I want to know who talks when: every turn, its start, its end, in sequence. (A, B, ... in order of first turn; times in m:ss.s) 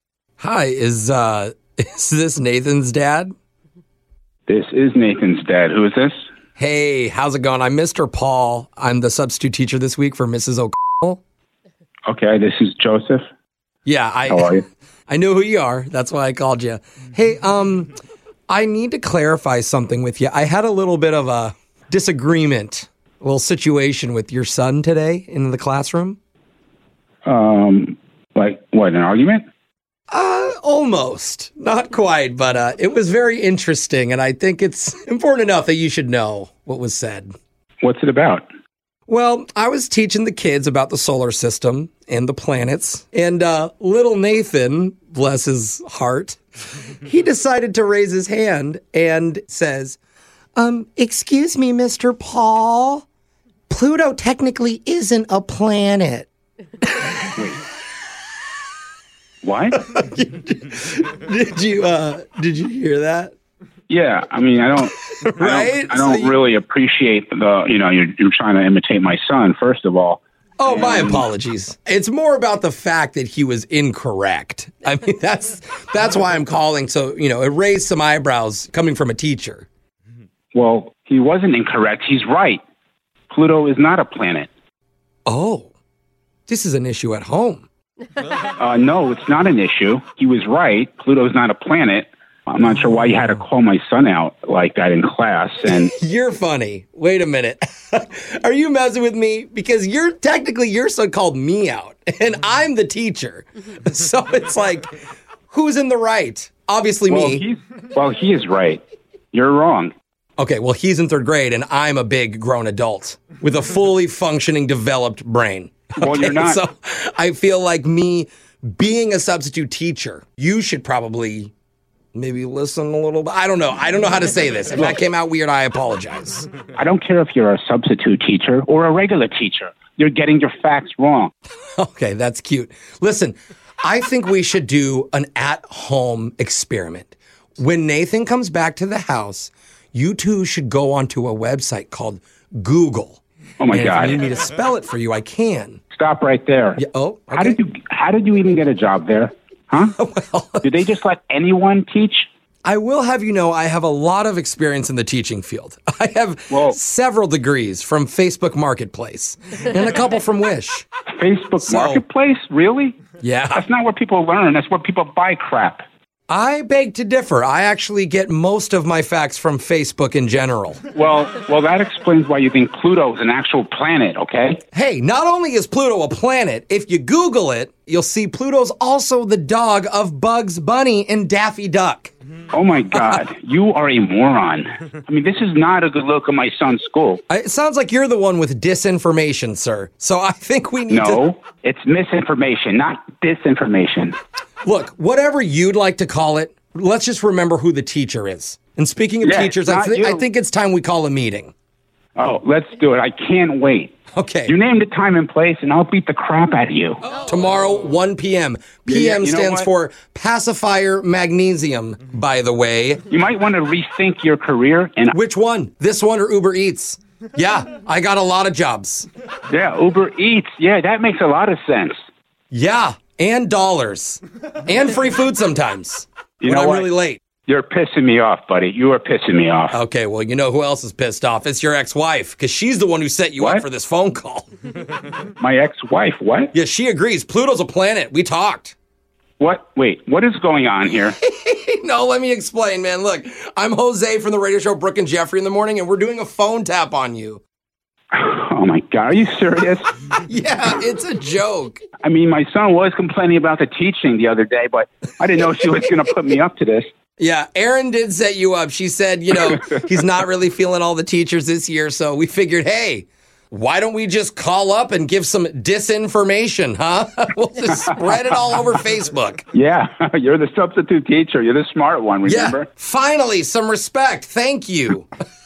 0:00.4-0:03.3 A
0:04.5-0:06.2 B
0:06.6-0:11.2 A
0:12.1-0:13.2 B
0:13.9-0:14.6 A
0:14.3-0:14.6 B
0:15.1-0:17.9 A
0:18.5-0:26.2 A
0:27.2-0:29.4 B
0:30.1-0:37.3 A
0:37.8-0:38.4 B
0:39.1-0:46.4 A
0:47.0-0:50.0 A
0:50.6-0:53.0 A
0:53.7-0:56.3 A
0:56.8-0:57.3 A
0:57.3-0:57.6 B
0:59.4-0:59.8 B
0:59.8-1:03.3 A
1:03.9-1:11.2 B
1:05.2-1:06.4 A
1:10.6-1:19.7 A
1:20.5-1:22.6 B
1:23.3-1:24.5 B
1:25.2-1:25.7 A
1:26.5-1:27.7 A
1:28.6-1:35.9 B
1:35.6-1:44.9 A
1:45.5-1:47.4 A
1:47.1-1:48.8 B
1:49.3-1:49.9 B
1:50.4-2:01.5 A
1:56.0-1:56.6 B
2:02.1-2:06.5 A
2:06.8-2:11.3 B
2:11.8-2:25.8 A
2:23.6-2:24.2 B
2:25.9-2:26.8 B
2:26.8-2:27.6 A
2:27.3-2:29.9 B
2:30.0-2:30.7 A
2:30.6-2:32.3 B
2:32.6-2:40.8 A
2:36.5-2:36.8 B
2:41.1-2:43.0 B
2:41.6-2:42.0 A
2:43.2-2:43.6 A
2:43.5-2:45.8 B
2:46.3-2:50.8 A
2:50.9-2:54.6 B
2:54.7-3:02.1 A
3:02.5-3:07.2 B
3:02.9-3:03.2 A
3:07.3-3:11.2 A
3:10.9-3:14.2 B
3:14.6-3:21.5 A
3:19.2-3:20.2 B
3:22.2-3:23.9 B
3:24.1-3:24.5 A
3:24.5-3:27.0 B
3:27.2-3:33.0 A
3:28.9-3:29.7 B
3:33.1-3:35.1 B
3:35.1-3:39.1 A
3:39.5-3:42.0 B
3:42.5-3:47.2 A
3:46.4-3:46.9 B
3:47.4-3:49.8 B
3:49.7-3:54.5 A
3:53.4-3:53.6 B
3:55.4-3:56.5 B
3:56.5-3:58.7 A
3:59.4-4:01.2 B
4:01.2-4:07.4 A
4:08.1-4:10.0 B
4:10.2-4:11.8 A
4:12.0-4:16.9 B
4:17.2-4:29.4 A
4:19.3-4:20.0 B
4:27.7-4:28.2 B
4:29.5-4:32.7 B
4:32.2-4:35.1 A